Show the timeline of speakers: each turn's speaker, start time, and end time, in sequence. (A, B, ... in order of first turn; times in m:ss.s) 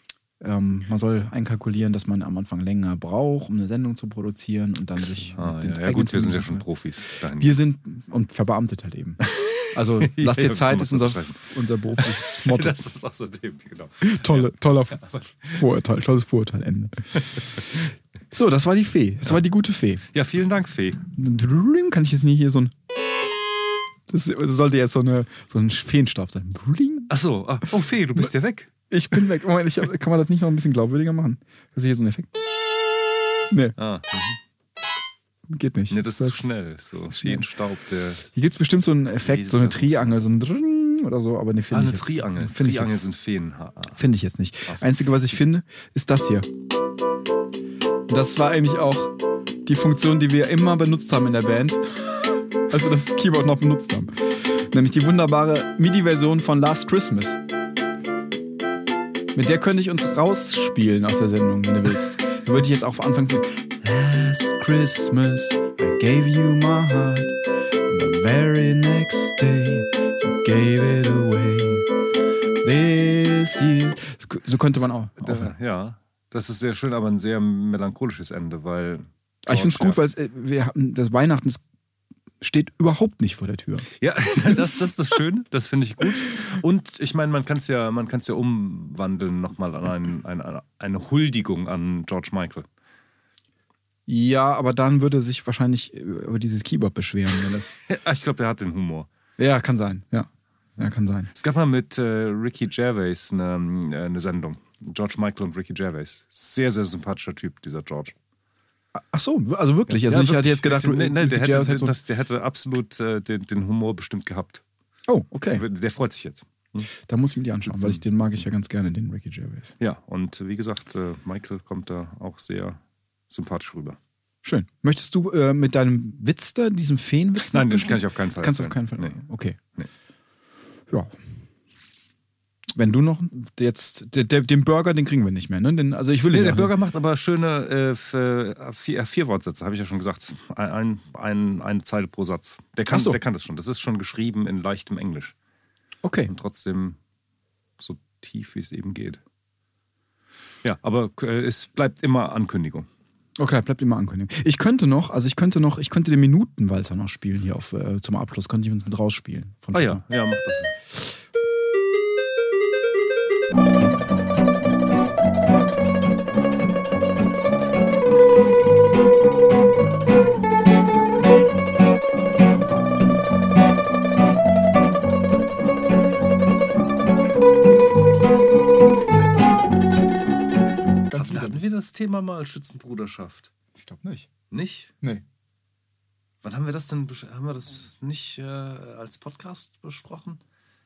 0:00.4-0:06.6 A
0:05.2-0:07.6 B
0:07.2-0:12.8 A
0:09.3-0:15.6 B
0:14.0-0:15.0 A
0:15.5-0:17.6 A
0:17.2-0:17.9 B
0:18.3-0:20.0 A
0:20.1-0:21.0 B
0:21.1-0:22.7 A
0:24.1-0:27.1 A
0:27.1-0:28.7 B
0:28.9-0:32.3 A
0:33.5-0:33.8 A
0:33.8-0:34.4 B
0:35.5-0:36.5 A
0:35.9-0:38.3 B
0:37.0-0:37.5 A
0:38.3-0:43.1 A
0:39.2-0:40.3 B
0:41.7-0:44.0 B
0:44.0-0:46.5 A
0:44.7-0:45.4 B
0:48.1-0:57.4 A
0:59.3-1:07.4 A
1:07.9-1:11.9 A
1:12.6-1:15.5 A
1:14.8-1:20.0 B
1:19.4-1:21.6 A
1:22.4-1:24.9 A
1:24.0-1:32.7 B
1:34.1-1:37.8 A
1:37.8-1:39.1 B
1:39.4-1:41.3 A
1:41.3-1:48.1 B
1:48.9-1:52.0 A
1:49.9-1:54.6 B
1:55.1-1:55.6 A
1:55.5-1:56.9 B
1:56.9-1:59.7 A
1:57.6-1:58.0 B
1:59.8-2:04.0 B
2:04.4-2:09.6 A
2:07.5-2:09.2 B
2:10.9-2:11.1 A
2:12.7-2:16.7 A
2:16.3-2:25.3 B
2:22.9-2:23.2 A
2:26.0-2:26.3 A
2:26.3-2:27.0 B
2:27.8-2:29.2 B
2:30.6-2:32.9 B
2:33.4-2:40.0 A
2:39.7-2:40.7 B
3:01.0-3:01.7 A
3:01.1-3:03.5 B
3:03.7-3:04.3 A
3:04.5-3:04.9 B
3:06.4-3:10.4 B